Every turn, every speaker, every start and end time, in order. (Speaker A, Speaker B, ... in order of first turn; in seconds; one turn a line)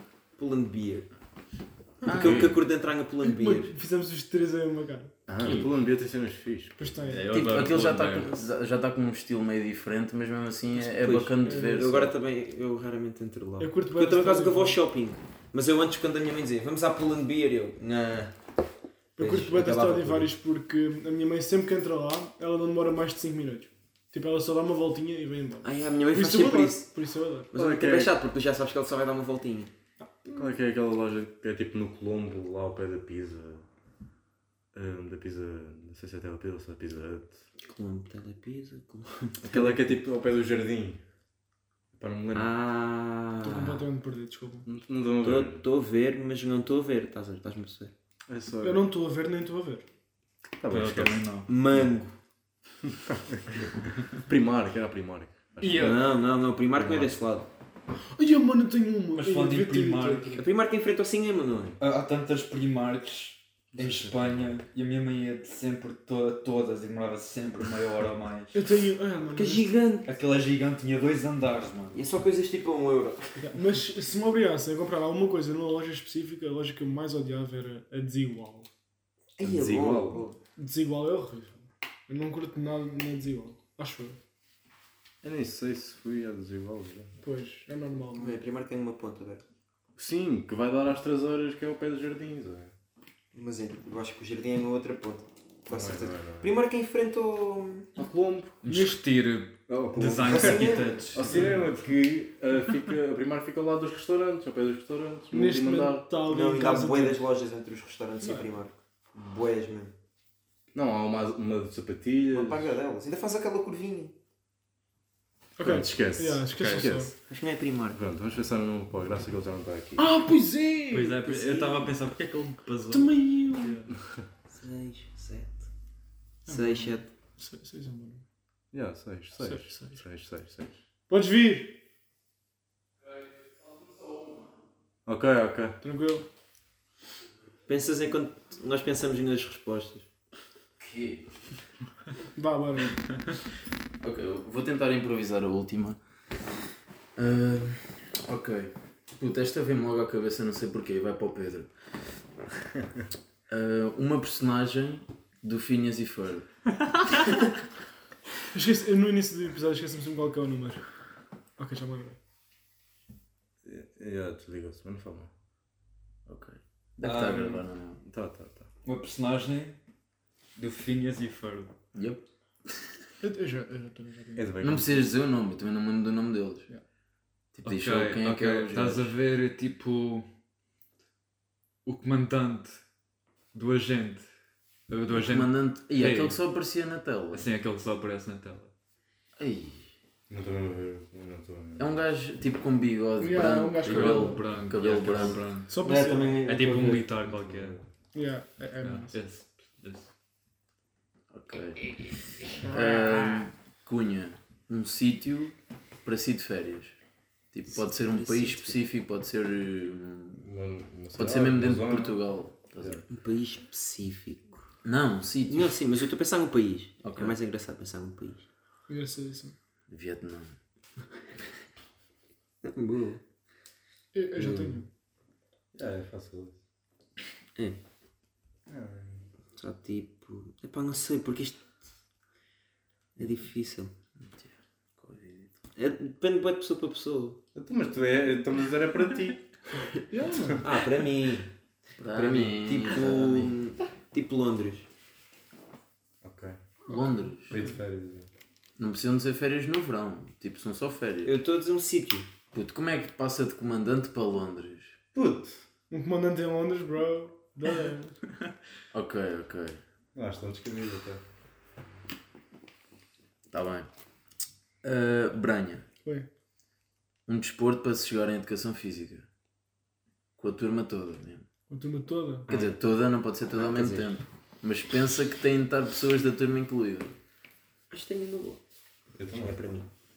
Speaker A: 0.3-1.1
Speaker B: 2.0-2.3
Speaker C: 2.0-2.4
Speaker A: 2.0-3.7
Speaker D: 2.1-2.6
Speaker B: 3.2-5.7
Speaker D: 5.3-7.1
Speaker B: 6.8-7.4
Speaker E: 7.0-8.4
Speaker C: 7.3-12.1
Speaker A: 10.8-18.3
Speaker B: 11.4-12.1
Speaker B: 13.6-14.8
Speaker B: 19.1-27.5
Speaker A: 19.2-20.3
Speaker A: 25.6-26.9
Speaker A: 27.5-29.7
Speaker D: 27.5-28.2
Speaker B: 30.0-30.6
Speaker D: 30.3-33.6
Speaker D: 34.7-37.4
Speaker A: 37.7-39.8
Speaker D: 39.4-41.0
Speaker D: 41.9-42.5
Speaker A: 42.3-43.8
Speaker B: 43.4-44.7
Speaker D: 44.7-45.6
Speaker A: 45.2-47.9
Speaker D: 48.3-48.9
Speaker B: 48.6-49.9
Speaker D: 50.6-51.2
Speaker E: 50.7-52.0
Speaker A: 51.5-52.1
Speaker D: 52.9-53.4
Speaker D: 54.2-56.0
Speaker E: 55.6-56.0
Speaker A: 55.8-57.5
Speaker D: 56.8-57.1
Speaker B: 58.1-60.5
Speaker E: 59.1-60.4
Speaker A: 60.4-61.8
Speaker E: 61.8-68.7
Speaker D: 63.7-64.5
Speaker B: 68.5-69.6
Speaker A: 69.3-70.1
Speaker E: 70.0-72.0
Speaker A: 71.9-73.5
Speaker B: 73.4-78.7
Speaker A: 79.4-80.4
Speaker D: 79.4-80.3
Speaker B: 80.6-84.2
Speaker D: 85.2-87.1
Speaker B: 87.2-88.4
Speaker A: 88.1-89.4
Speaker D: 90.0-92.7
Speaker A: 93.3-97.9
Speaker D: 95.7-96.5
Speaker D: 98.0-98.6
Speaker E: 98.6-101.5
Speaker B: 98.7-99.0
Speaker D: 99.7-106.1
Speaker A: 100.2-100.9
Speaker B: 101.3-101.6
Speaker B: 105.3-107.2
Speaker A: 106.2-109.9
Speaker B: 108.2-108.5
Speaker D: 110.7-112.8
Speaker A: 112.3-114.1
Speaker B: 115.6-117.1
Speaker D: 115.6-117.1
Speaker A: 117.3-118.0
Speaker D: 117.9-120.0
Speaker B: 120.0-121.7
Speaker E: 120.9-123.8
Speaker A: 121.5-121.9
Speaker B: 122.9-123.9
Speaker A: 124.5-125.7
Speaker A: 126.5-127.1
Speaker B: 126.5-128.2
Speaker D: 128.7-130.8
Speaker B: 129.4-130.0
Speaker B: 131.1-131.8
Speaker D: 135.1-135.8
Speaker B: 135.8-136.2
Speaker A: 137.7-140.1
Speaker C: 140.8-141.2
Speaker B: 142.3-143.2
Speaker C: 144.0-146.0
Speaker C: 147.2-151.7
Speaker C: 153.5-156.5
Speaker B: 158.5-160.8
Speaker B: 161.6-162.2
Speaker D: 163.6-165.3
Speaker C: 166.3-168.0
Speaker E: 167.0-167.6
Speaker D: 168.0-168.7
Speaker E: 168.8-169.8
Speaker E: 170.6-171.7
Speaker C: 171.9-172.9
Speaker B: 173.2-174.5
Speaker D: 174.3-175.0
Speaker C: 174.6-176.7
Speaker C: 177.5-179.1
Speaker E: 177.6-180.3
Speaker E: 181.8-182.8
Speaker E: 183.5-184.2
Speaker E: 184.9-186.4
Speaker C: 185.1-187.5
Speaker E: 187.3-188.7
Speaker C: 189.4-189.9
Speaker D: 190.3-191.9
Speaker C: 191.8-195.4
Speaker B: 193.2-194.5
Speaker E: 193.8-197.8
Speaker D: 194.9-195.3
Speaker B: 195.7-196.4
Speaker A: 195.8-197.1
Speaker D: 197.3-197.8
Speaker B: 198.1-199.2
Speaker E: 198.8-200.1
Speaker C: 201.3-201.8
Speaker B: 202.6-203.4
Speaker C: 202.6-206.9
Speaker C: 207.5-210.4
Speaker A: 207.7-208.8
Speaker D: 210.3-212.2
Speaker C: 211.1-213.0
Speaker A: 213.1-214.6
Speaker C: 214.8-215.8
Speaker A: 215.5-218.4
Speaker C: 217.0-217.3
Speaker B: 218.9-219.5
Speaker C: 219.9-220.5
Speaker A: 222.6-223.2
Speaker B: 224.1-224.9
Speaker A: 224.4-224.8
Speaker D: 225.7-226.5
Speaker D: 228.7-229.3
Speaker A: 229.6-231.6
Speaker A: 233.2-233.9
Speaker C: 234.3-235.5
Speaker A: 235.8-237.4
Speaker D: 237.5-239.5
Speaker B: 240.1-240.6
Speaker A: 240.6-241.5
Speaker C: 242.0-243.5
Speaker A: 242.1-244.9
Speaker D: 246.2-246.6
Speaker C: 246.9-247.6
Speaker B: 246.9-247.7
Speaker D: 247.5-248.3
Speaker C: 248.8-251.3
Speaker A: 251.2-252.3
Speaker C: 252.5-255.0
Speaker D: 255.1-255.6
Speaker B: 255.9-258.2
Speaker C: 258.9-259.8
Speaker D: 260.1-261.2
Speaker C: 263.5-263.9
Speaker C: 264.8-265.8
Speaker C: 267.3-269.2
Speaker C: 270.4-271.4
Speaker B: 271.7-272.5
Speaker C: 272.5-277.1
Speaker A: 273.6-274.1
Speaker A: 277.9-278.6
Speaker D: 279.1-279.6
Speaker A: 279.3-279.9